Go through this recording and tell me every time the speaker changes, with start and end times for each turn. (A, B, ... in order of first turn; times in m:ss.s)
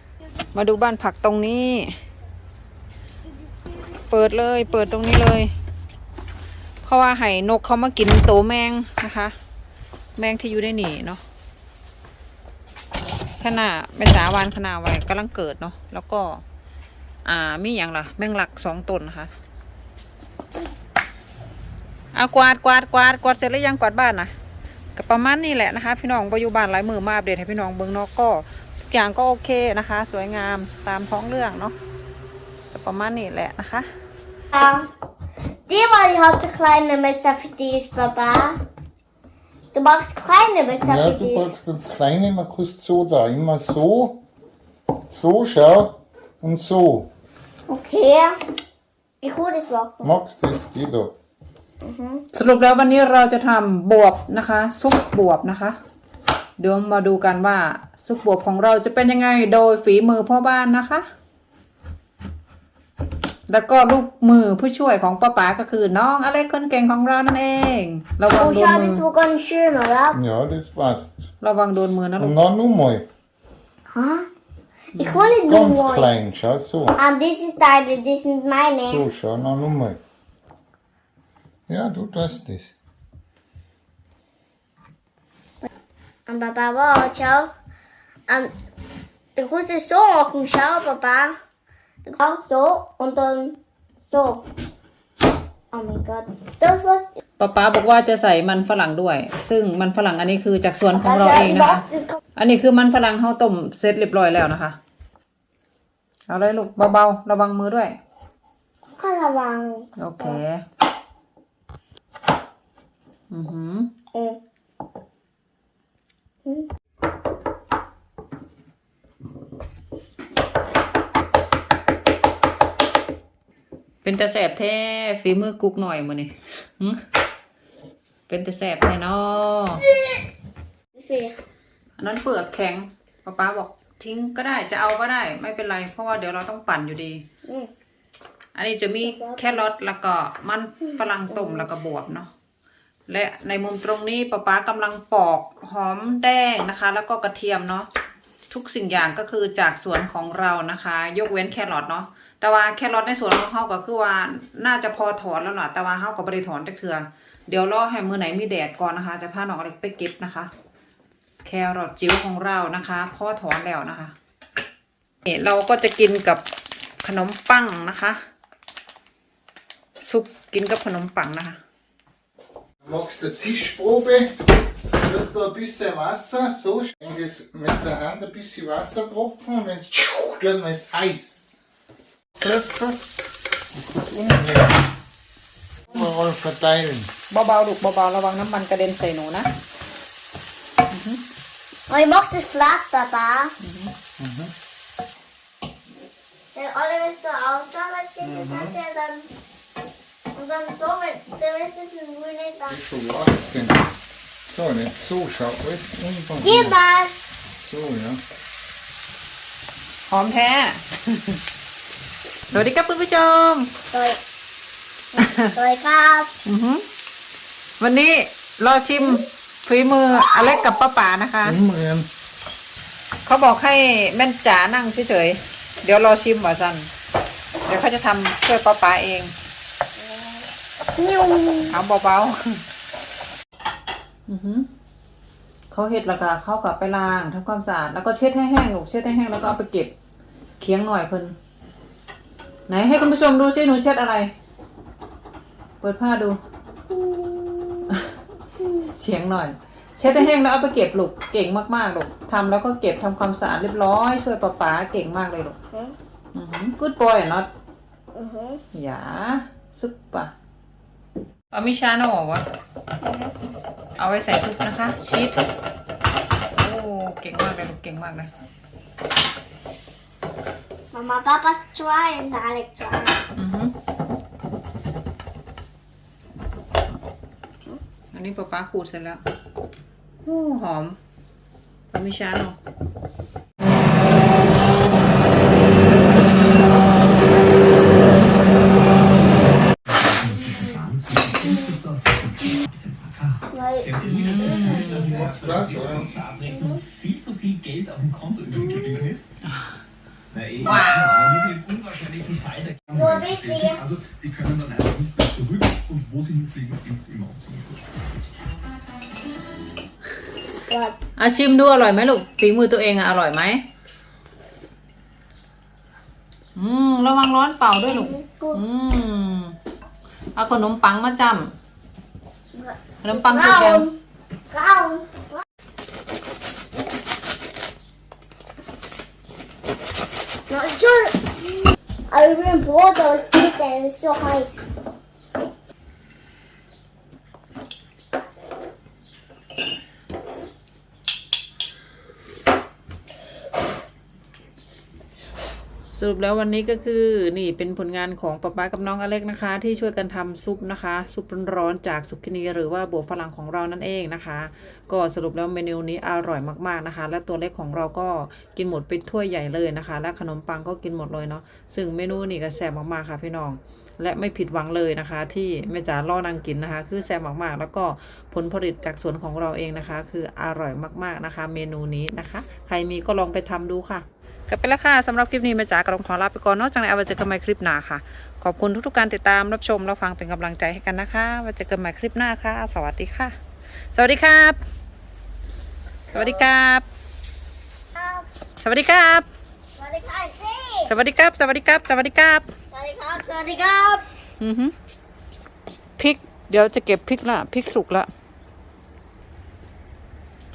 0:00.5-0:02.0 A
0:03.4-0:04.0 B
0:04.1-0:05.5 A
0:06.8-0:09.3 A
0:10.2-0:11.2 A
0:13.4-0:16.4 A
0:17.2-0:19.3 A
0:22.1-0:24.3 A
0:25.0-0:31.7 A
0:32.7-0:33.9 A
0:34.5-0:34.9 B
0:35.7-0:38.6 B
0:39.7-0:41.5 B
0:40.8-0:44.2 C
0:45.1-0:47.1 C
0:47.7-0:48.4 B
0:49.2-0:50.1 B
0:50.0-0:51.1 C
0:51.8-0:52.2 B
0:52.3-0:55.8 A
0:56.6-1:01.0 A
1:03.5-1:09.0 A
1:08.3-1:10.2 B
1:10.1-1:11.2 C
1:11.4-1:12.4 A
1:12.2-1:13.0 C
1:13.9-1:14.3 B
1:14.9-1:16.1 B
1:15.0-1:15.3 A
1:15.4-1:17.0 C
1:17.0-1:19.0 B
1:18.8-1:20.0 C
1:21.7-1:22.7 C
1:26.3-1:27.5 B
1:29.4-1:31.4 B
1:32.0-1:33.6 B
1:34.1-1:34.4 B
1:35.7-1:37.0 B
1:37.4-1:41.8 A
1:40.9-1:42.2 B
1:42.4-1:44.8 A
1:46.3-1:48.0 A
1:49.0-1:50.4 B
1:50.0-1:50.6 A
1:53.3-1:53.9 A
1:54.1-1:54.4 B
2:04.0-2:07.0 A
2:08.3-2:09.8 A
2:10.9-2:11.4 B
2:12.0-2:17.2 A
2:17.4-2:17.7 B
2:18.5-2:22.3 A
2:19.0-2:19.6 B
2:21.3-2:21.7 B
2:23.1-2:27.9 A
2:28.5-2:40.5 A
2:41.4-2:44.1 A
2:45.2-2:46.4 A
2:47.0-2:48.2 A
2:50.0-2:51.6 A
2:52.8-3:01.4 C
3:02.4-3:03.0 C
3:03.7-3:04.8 C
3:05.9-3:07.1 C
3:07.3-3:09.5 A
3:10.9-3:11.2 A
3:11.9-3:13.5 B
3:13.6-3:13.9 A
3:14.2-3:14.5 C
3:16.5-3:19.3 B
3:18.2-3:18.7 C
3:20.3-3:22.8 B
3:22.7-3:23.9 C
3:24.5-3:26.8 C
3:26.4-3:27.5 B
3:27.5-3:28.2 C
3:30.1-3:31.4 A
3:32.5-3:33.7 A
3:33.9-3:34.2 B
3:35.1-3:36.3 B
3:35.2-3:35.5 A
3:36.4-3:36.8 A
3:37.8-3:41.6 A
3:41.4-3:42.1 C
3:43.2-3:46.9 A
3:47.6-3:49.3 A
3:50.0-3:51.8 B
3:51.7-3:52.6 A
3:54.3-3:54.7 A
3:55.7-3:59.9 A
4:00.6-4:01.4 A
4:02.7-4:04.3 A
4:05.8-4:06.4 A
4:06.9-4:08.0 B
4:07.9-4:08.2 A
4:08.8-4:15.6 A
4:16.3-4:17.5 A
4:18.1-4:18.6 B
4:18.7-4:20.3 A
4:21.5-4:22.4 A
4:23.0-4:23.3 B
4:24.0-4:25.4 A
4:26.5-4:28.3 A
4:30.9-4:33.2 B
4:33.3-4:33.7 A
4:38.1-4:39.2 A
4:40.2-4:41.0 A
4:41.9-4:42.6 A
4:48.9-4:59.3 D
4:53.5-4:55.2 B
4:54.0-4:55.2 A
4:55.0-4:56.2 C
4:56.5-4:56.8 B
5:00.3-5:07.8 D
5:00.6-5:01.1 A
5:02.9-5:03.8 B
5:10.7-5:11.0 B
5:11.2-5:13.6 A
5:16.6-5:19.6 A
5:17.9-5:18.6 B
5:20.4-5:21.5 A
5:22.5-5:23.9 B
5:23.0-5:23.9 A
5:24.5-5:25.4 B
5:30.5-5:34.7 B
5:45.9-6:23.4 A
6:23.9-6:24.6 A
6:26.1-6:26.8 A
6:27.9-6:28.2 B
6:28.6-6:29.3 A
6:29.8-6:30.9 B
6:30.9-6:32.5 A
6:32.7-6:34.0 B
6:34.4-6:34.7 A
6:36.0-6:38.1 A